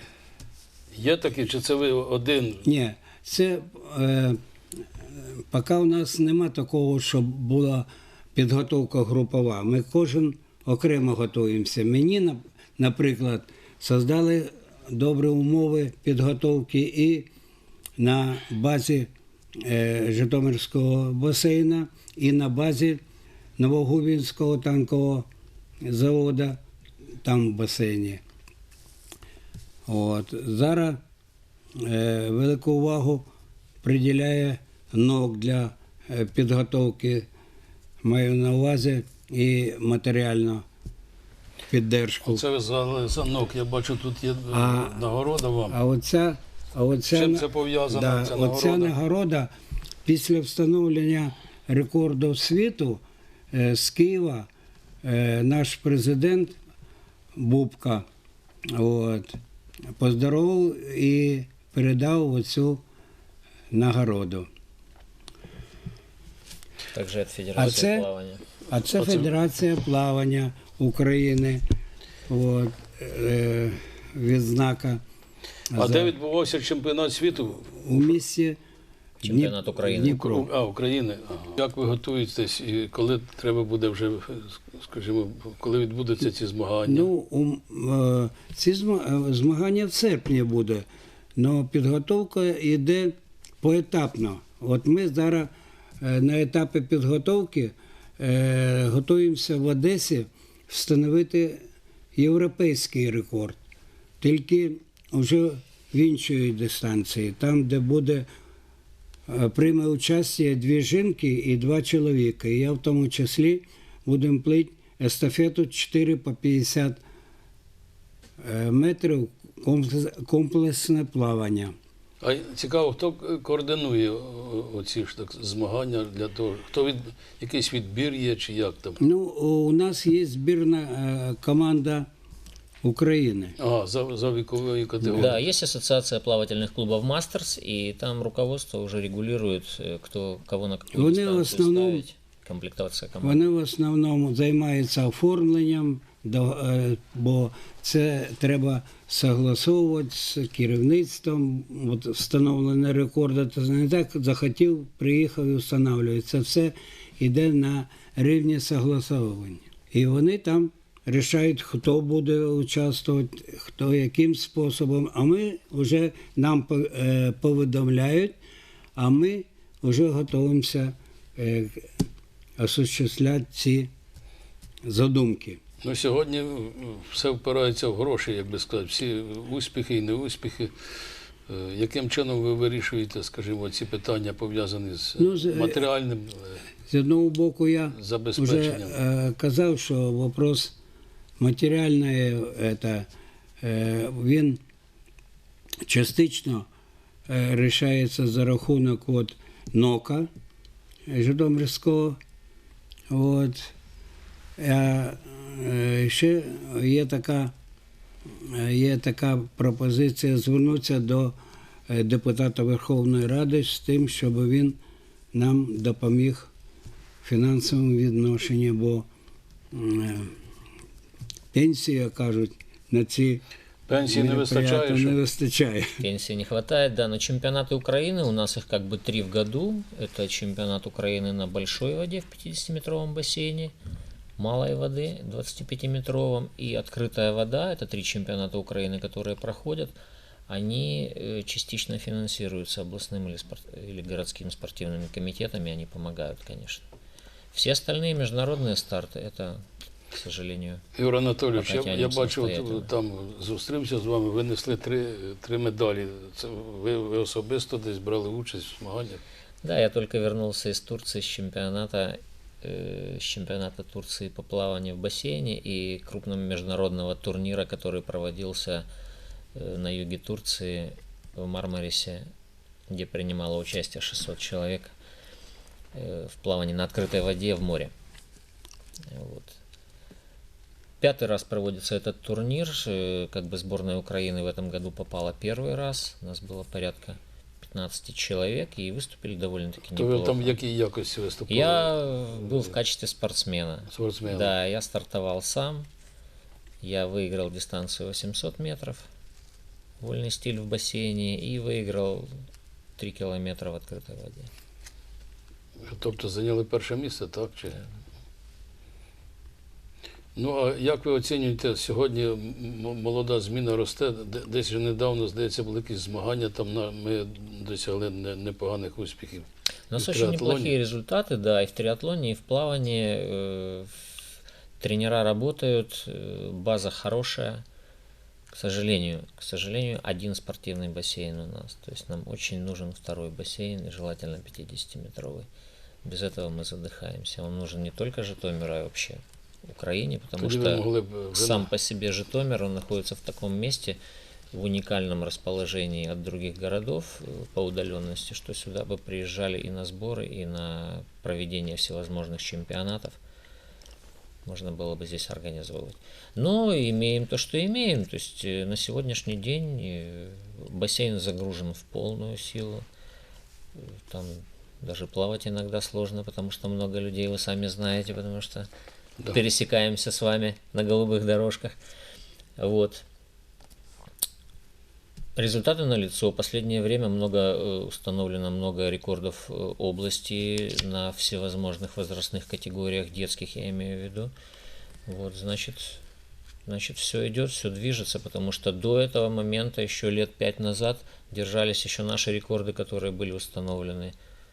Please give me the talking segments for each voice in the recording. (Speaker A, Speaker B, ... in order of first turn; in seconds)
Speaker A: 0.9-2.6, 42.2-45.8, 47.1-48.9, 69.0-69.3, 75.7-77.7, 80.0-87.1, 122.2-129.0, 133.6-135.4, 175.8-186.6, 187.9-189.0, 223.9-225.2, 250.9-259.2, 289.9-292.6, 293.9-294.5, 305.9-307.8, 310.3-320.7, 340.4-341.7
Speaker B: 2.6-4.4, 5.0-17.3, 18.0-23.0, 23.6-25.3, 25.8-26.6, 27.2-28.2, 29.9-31.0, 31.8-33.3, 33.8-37.3, 38.0-40.6, 41.7-42.4, 44.5-45.1, 45.7-49.5, 50.0-54.5, 55.0-56.5, 57.4-58.0, 58.7-59.4, 60.0-62.8, 63.7-64.5, 67.6-68.1, 68.7-71.6, 72.3-75.0, 75.7-76.1, 77.6-78.6, 79.2-80.5, 86.8-90.8, 91.4-101.6, 102.1-103.6, 104.2-108.2, 109.3-117.0, 118.4-121.7, 129.0-132.1, 132.8-133.6, 140.9-142.0, 143.2-168.3, 168.9-171.9, 172.6-173.9, 174.8-175.6, 185.2-185.8, 186.9-190.8, 191.4-193.1, 193.6-194.6, 195.8-196.7, 197.3-200.3, 201.1-202.2, 203.1-203.7, 204.6-207.5, 208.3-211.4, 211.9-214.8, 215.3-216.5, 217.2-219.1, 219.7-220.3, 221.5-223.4, 224.0-226.0
Speaker C: 66.9-68.4, 79.2-80.2, 135.1-143.4, 226.0-233.7, 234.4-239.9, 240.5-246.8, 247.5-250.8, 251.5-252.9, 259.6-268.9, 269.5-272.3, 272.9-274.9, 275.9-277.9, 279.1-279.6, 281.0-290.6, 291.5-295.9, 296.8-299.1, 300.0-302.4, 303.0-304.5, 319.9-324.1, 324.8-327.6, 328.5-335.5, 336.0-344.0, 344.5-353.2, 354.4-362.8, 363.8-368.7, 369.3-371.7, 372.6-373.0, 375.4-384.3, 385.1-386.0, 386.6-394.1